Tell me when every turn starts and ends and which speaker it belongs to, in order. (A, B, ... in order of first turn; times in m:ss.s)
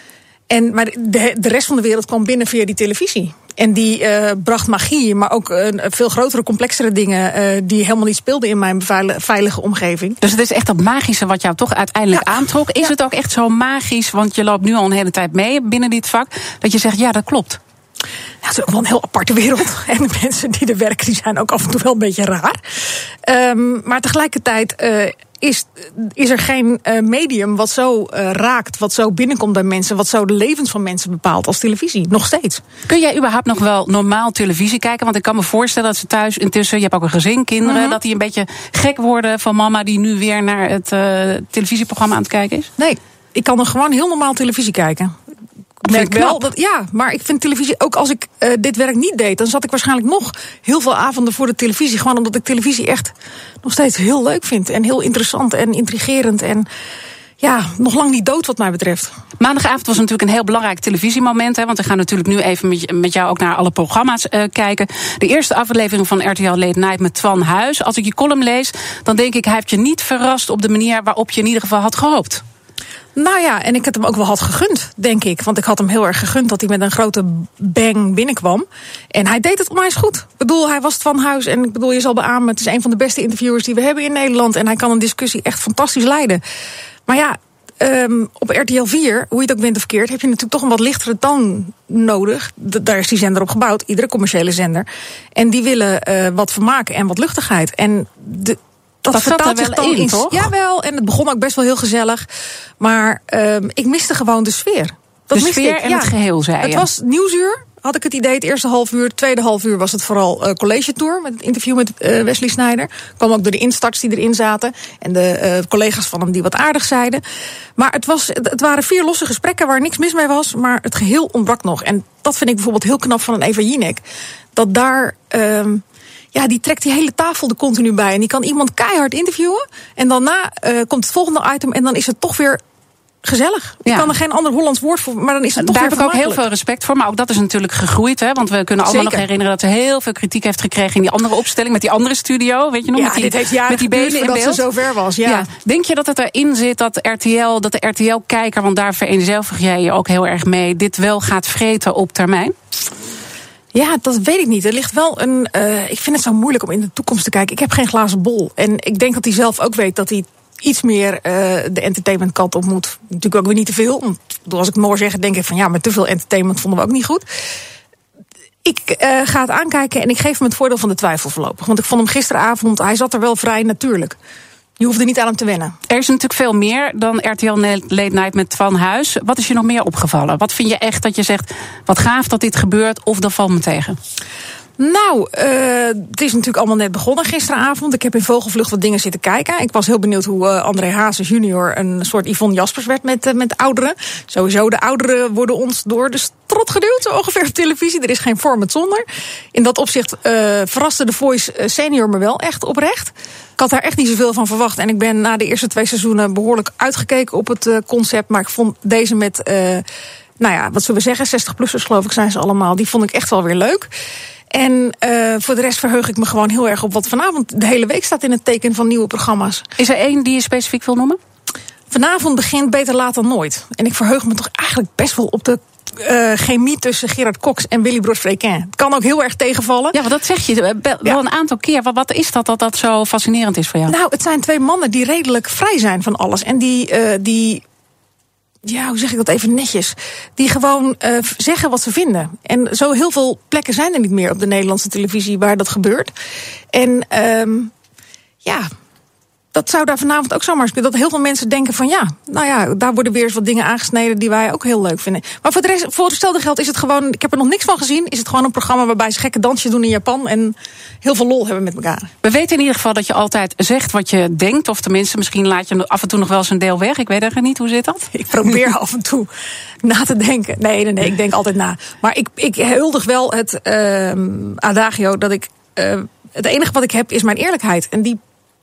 0:00.5-0:10.2 A
0:10.2-0:17.6 B
0:18.4-0:22.6 A
0:23.2-0:32.6 A
0:32.9-0:42.7 B
0:37.6-0:38.0 A
0:42.8-0:45.1 A
0:45.8-0:53.1 A
0:45.9-0:46.4 B
0:53.6-0:56.7 A
0:57.4-0:59.1 A
0:59.4-1:12.4 B
1:13.1-1:26.4 A
1:27.1-1:42.2 A
1:39.1-1:40.5 B
1:42.8-1:46.1 A
1:45.3-1:46.8 B
1:46.6-1:57.2 A
1:57.8-2:04.0 A
2:04.5-2:05.8 A
2:06.3-2:12.6 A
2:13.2-2:16.4 A
2:13.8-2:14.1 B
2:15.6-2:24.6 B
2:18.8-2:19.2 A
2:22.9-2:25.5 A
2:25.2-2:32.5 B
2:33.7-2:47.2 A
2:48.6-2:54.2 A
2:54.8-2:55.8 A
2:55.9-3:04.0 B
3:04.8-3:29.8 A
3:30.4-3:33.9 A
3:34.5-3:39.6 A
3:39.8-3:41.2 B
3:41.9-3:50.0 A
3:49.9-3:53.9 B
3:53.9-3:57.6 A
3:58.6-4:06.1 A
4:06.7-4:07.7 A
4:09.5-4:22.1 A
4:22.2-4:28.1 B
4:28.1-4:29.3 A
4:29.8-4:38.2 A